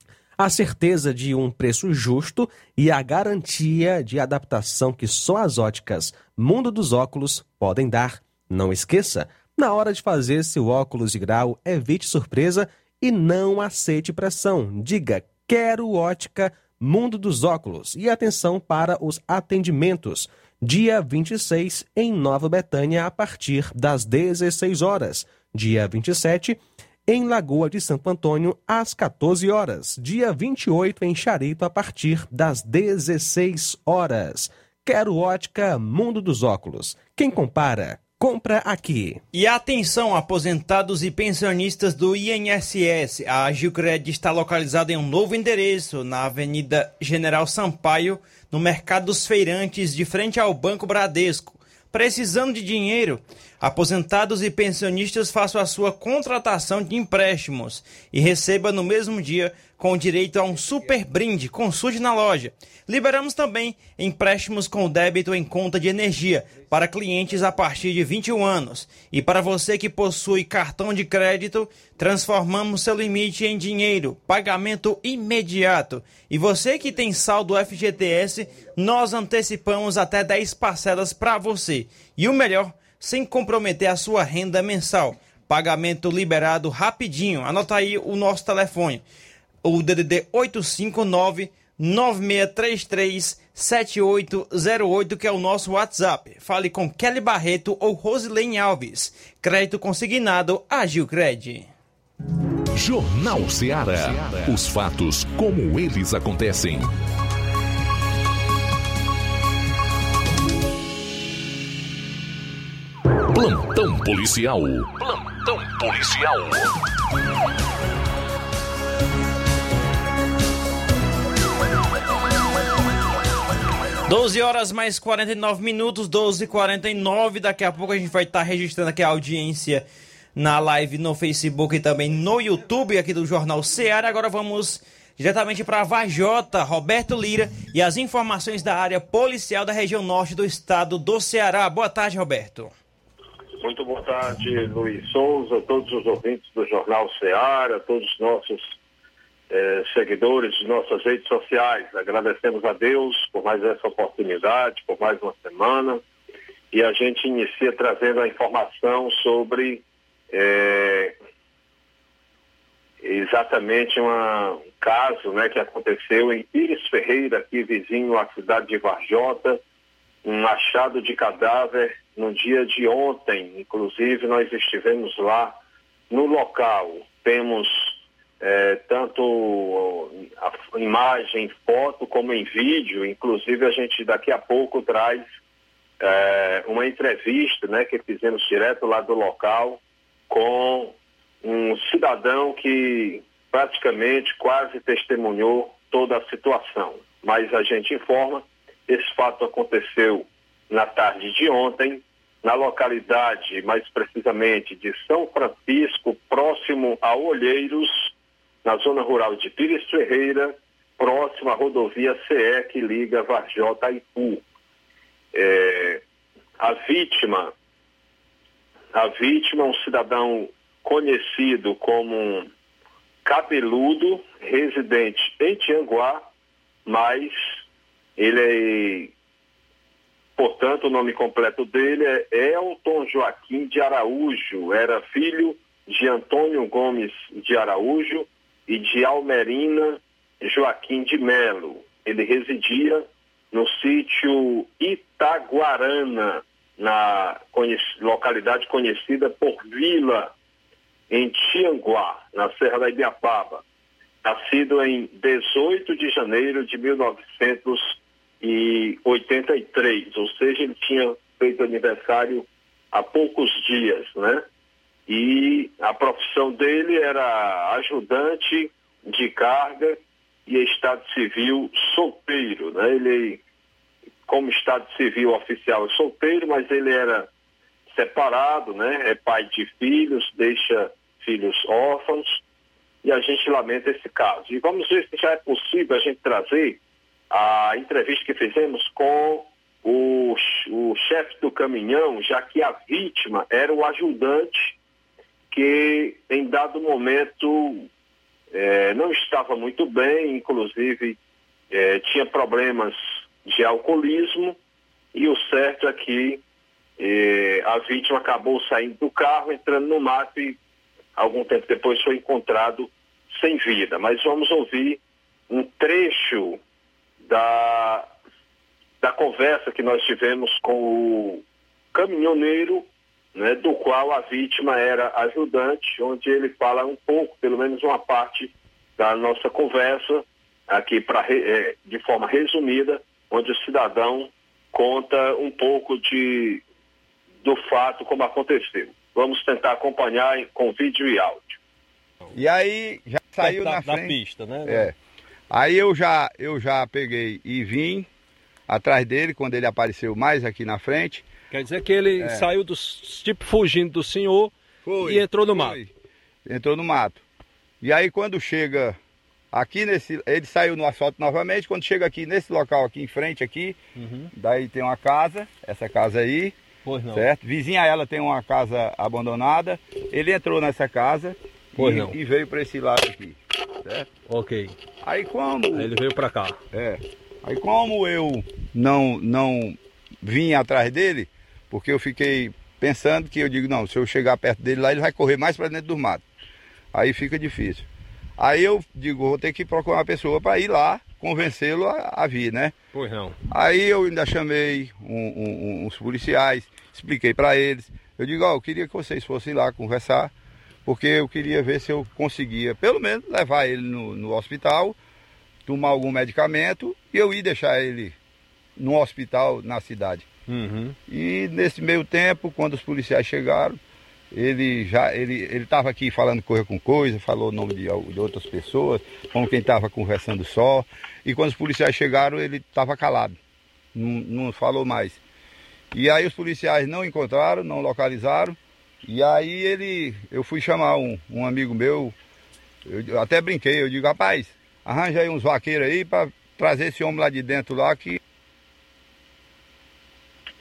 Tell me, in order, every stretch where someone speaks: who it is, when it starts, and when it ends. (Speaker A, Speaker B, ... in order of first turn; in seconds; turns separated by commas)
Speaker A: 0.4-39.2, Speaker B: 39.3-89.0, Speaker B: 89.6-101.7, Speaker C: 102.8-106.9, Speaker C: 113.3-116.7, Speaker B: 124.1-129.8, Speaker B: 130.4-142.7, Speaker D: 143.6-148.8, Speaker D: 149.5-156.0, Speaker D: 156.7-161.1, Speaker D: 163.0-169.6, Speaker D: 170.2-175.6, Speaker D: 176.1-185.2, Speaker D: 186.0-208.1, Speaker D: 208.6-214.4, Speaker D: 215.3-216.0, Speaker D: 216.6-217.5, Speaker D: 218.9-222.5, Speaker D: 223.2-226.3, Speaker D: 226.9-227.6, Speaker D: 228.2-229.1, Speaker D: 230.4-250.3, Speaker D: 251.1-253.6, Speaker D: 254.2-264.4, Speaker D: 265.1-273.4, Speaker D: 274.3-277.3, Speaker D: 277.9-282.4, Speaker D: 283.0-286.8, Speaker D: 287.3-294.8, Speaker D: 295.5-297.9, Speaker D: 298.5-301.2, Speaker D: 301.7-304.6, Speaker D: 305.1-306.4, Speaker D: 307.0-310.6, Speaker D: 311.2-316.6, Speaker D: 317.2-318.1, Speaker D: 319.0-321.4, Speaker D: 321.9-336.6, Speaker D: 337.4-341.6, Speaker E: 342.3-344.9, Speaker F: 343.4-344.9, Speaker E: 345.5-348.1, Speaker E: 348.7-351.3, Speaker F: 351.5-355.8, Speaker E: 352.2-352.5, Speaker E: 354.9-355.9, Speaker E: 356.5-357.2, Speaker E: 357.8-359.0, Speaker E: 359.5-363.8, Speaker F: 364.0-364.3, Speaker E: 364.3-366.5, Speaker F: 366.9-367.3, Speaker E: 367.1-374.2, Speaker F: 371.8-372.2, Speaker F: 374.2-374.8, Speaker E: 375.0-376.0, Speaker F: 375.7-376.6, Speaker E: 376.7-386.2, Speaker E: 386.9-387.9, Speaker E: 388.4-392.7, Speaker F: 392.9-393.4, Speaker E: 393.5-400.3, Speaker E: 400.9-405.0, Speaker E: 405.7-408.1, Speaker E: 408.8-410.3, Speaker F: 410.5-411.0, Speaker E: 411.1-413.8, Speaker E: 414.3-423.4, Speaker E: 423.9-425.2, Speaker E: 425.9-432.1, Speaker E: 432.9-438.2